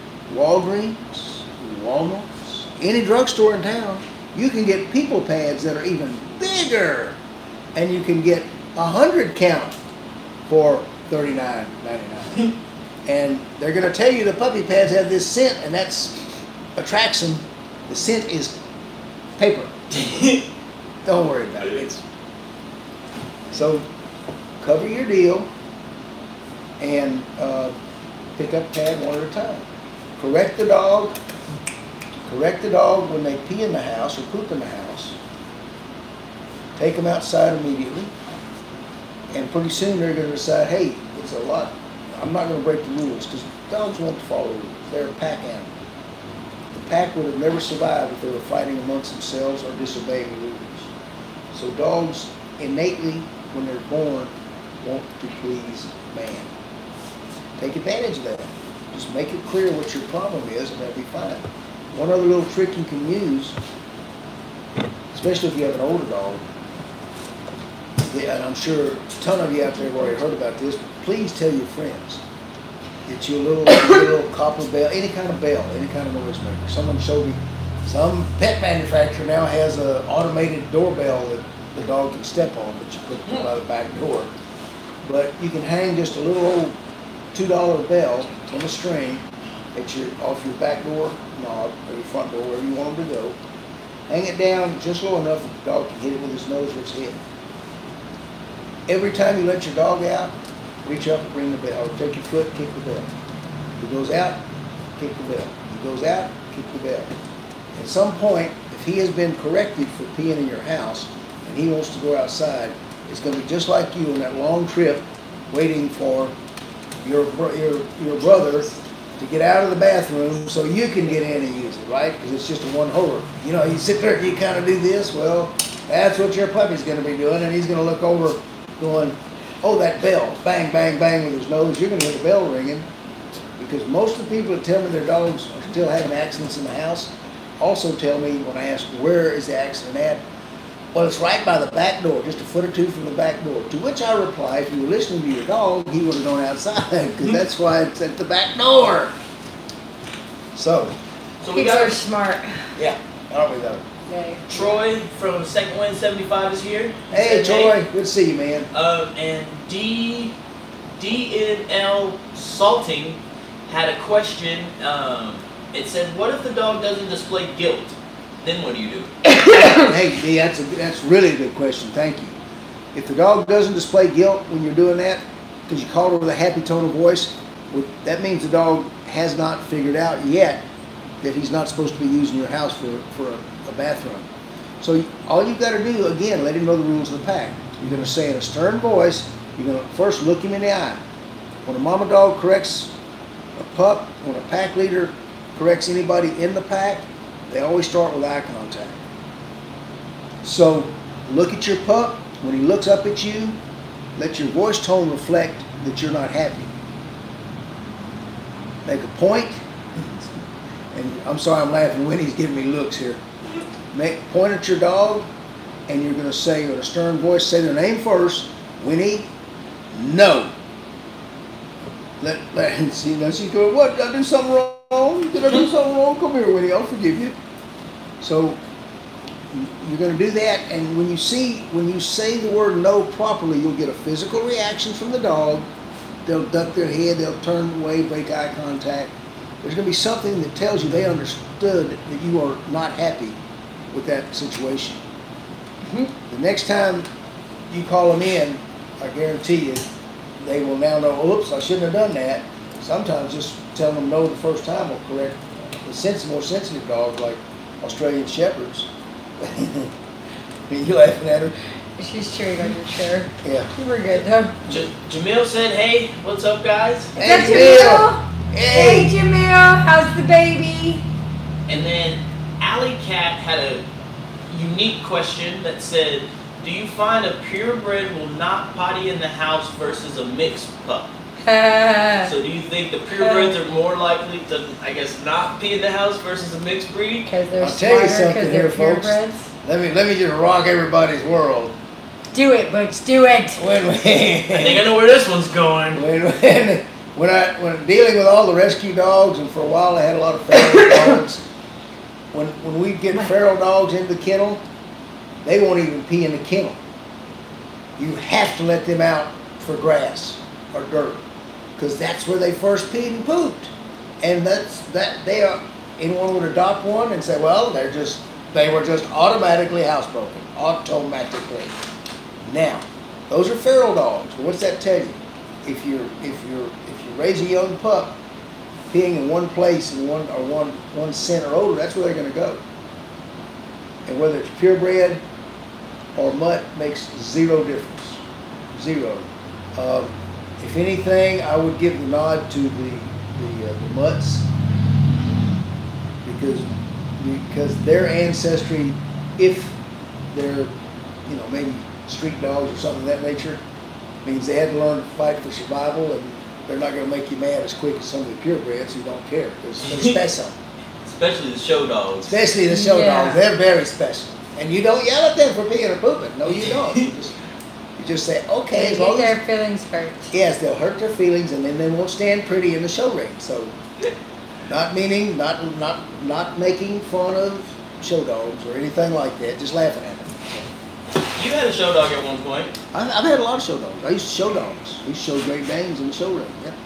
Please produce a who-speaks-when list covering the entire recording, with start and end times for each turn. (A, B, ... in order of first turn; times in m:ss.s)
0:00.3-0:07.2 A
0:07.7-0:09.8 A
0:10.5-0:12.5 A
0:13.0-0:18.6 A
0:19.4-0:19.8 A
0:19.9-0:20.4 B
0:21.0-0:22.0 A
0:23.5-0:23.8 A
0:24.6-0:25.5 A
0:26.8-0:27.7 A
0:28.4-0:29.7 A
0:30.2-0:31.1 A
0:32.2-0:35.2 A
0:36.8-0:38.1 A
0:39.3-0:45.7 A
0:46.7-0:50.9 A
0:51.5-0:56.5 A
0:57.6-1:03.6 A
1:05.1-1:06.4 A
1:08.0-1:12.2 A
1:13.0-1:24.3 A
1:25.0-1:26.7 A
1:27.3-1:33.4 A
1:34.1-1:37.2 A
1:38.9-1:40.3 A
1:40.8-1:43.1 A
1:43.8-1:44.4 A
1:45.0-1:47.1 A
1:47.7-1:56.3 A
1:57.0-2:12.9 A
2:13.6-2:20.2 A
2:20.9-2:29.1 A
2:30.5-2:31.0 A
2:31.4-2:32.0 B
2:31.5-2:32.7 C
2:32.7-2:33.8 A
2:34.1-2:34.7 C
2:34.5-2:37.8 B
2:37.1-2:38.7 A
2:38.7-2:40.3 B
2:41.0-2:49.1 B
2:49.5-2:52.4 A
2:52.9-3:00.6 A
3:01.2-3:04.3 A
3:04.8-3:11.0 A
3:11.6-3:12.9 A
3:13.6-3:19.0 A
3:20.4-3:23.6 A
3:24.2-3:26.7 A
3:28.8-3:33.2 A
3:33.9-3:35.3 A
3:35.9-3:39.3 A
3:39.9-3:40.5 A
3:42.2-3:47.3 A
3:48.2-3:48.6 A
3:49.5-3:55.7 A
3:56.2-4:03.4 A
4:03.9-4:05.0 A
4:05.8-4:06.1 C
4:06.3-4:07.1 A
4:07.7-4:09.9 A
4:10.4-4:19.9 A
4:20.7-4:21.6 A
4:22.0-4:24.6 C
4:23.4-4:23.7 A
4:24.6-4:27.2 B
4:27.2-4:29.1 A
4:27.2-4:31.0 C
4:31.7-4:33.8 B
4:34.5-4:41.1 B
4:41.4-4:42.3 C
4:42.2-4:47.3 B
4:43.1-4:43.5 C
4:47.2-4:49.5 C
4:47.6-4:51.7 A
4:52.3-4:53.6 C
4:53.6-4:54.9 A
4:54.5-4:56.0 B
4:55.9-5:01.4 A
5:02.3-5:04.6 A
5:05.4-5:06.8 A
5:08.0-5:11.2 A
5:11.8-5:21.8 A
5:22.4-5:28.2 A
5:28.9-5:32.6 A
5:34.0-5:35.2 A
5:36.1-5:44.5 A
5:46.2-5:49.8 A
5:50.3-5:50.7 A
5:51.2-5:53.6 A
5:54.2-6:00.5 A
5:59.8-6:00.1 B
6:01.0-6:02.4 B
6:02.2-6:07.3 A
6:02.7-6:03.4 C
6:06.6-6:07.0 B
6:08.0-6:09.3 A
6:08.7-6:10.3 C
6:10.3-6:13.7 A
6:14.7-6:20.7 A
6:21.3-6:22.7 B
6:22.9-6:26.8 A